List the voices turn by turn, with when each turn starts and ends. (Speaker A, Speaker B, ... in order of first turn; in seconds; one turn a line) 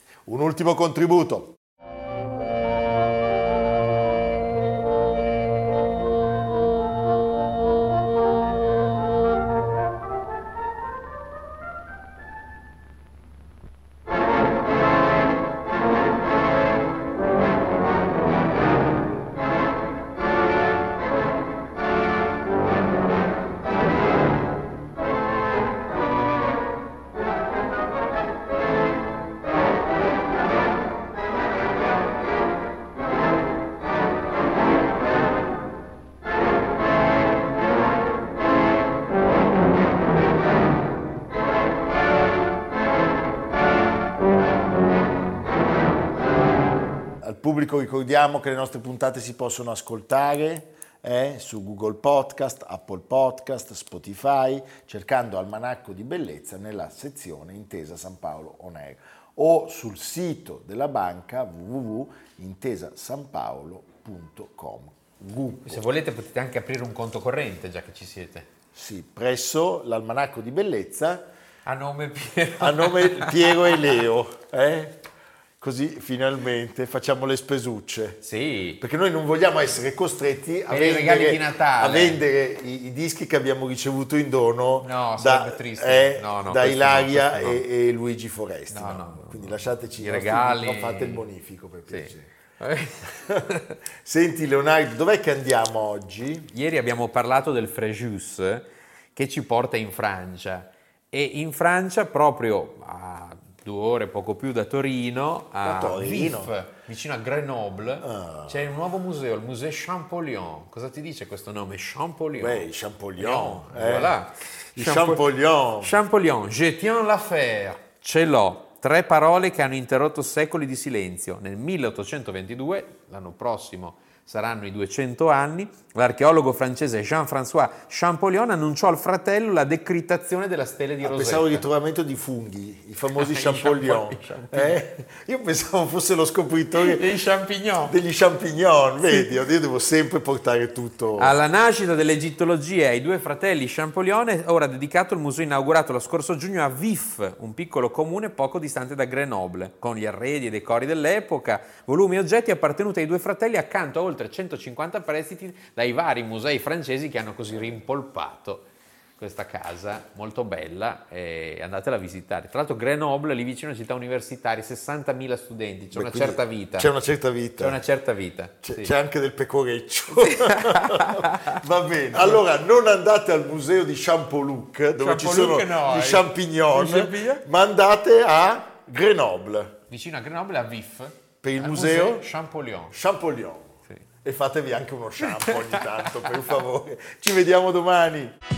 Speaker A: 0.2-1.6
Speaker A: 47.2-65.9
Speaker B: 65.6-68.5
Speaker A: 68.7-71.3
Speaker B: 71.7-73.9
Speaker A: 72.6-75.0
Speaker A: 75.6-78.2
Speaker B: 78.2-78.8
Speaker A: 78.8-92.3
Speaker B: 80.7-82.2
Speaker B: 84.8-87.6
Speaker B: 88.7-91.2
Speaker B: 91.9-93.7
Speaker A: 93.2-96.5
Speaker B: 96.5-115.2
Speaker A: 105.6-106.5
Speaker A: 108.0-108.6
Speaker A: 112.4-114.2
Speaker A: 114.7-116.0
Speaker B: 115.8-131.7
Speaker A: 131.0-137.1
Speaker B: 133.2-134.8
Speaker B: 136.7-137.9
Speaker A: 137.8-141.4
Speaker B: 141.2-158.7
Speaker B: 159.2-166.9
Speaker A: 165.9-167.8
Speaker B: 167.6-168.9
Speaker A: 168.6-179.7
Speaker B: 170.2-171.6
Speaker B: 174.9-177.4
Speaker B: 179.9-182.9
Speaker A: 181.4-182.3
Speaker A: 182.9-188.3
Speaker B: 185.5-185.8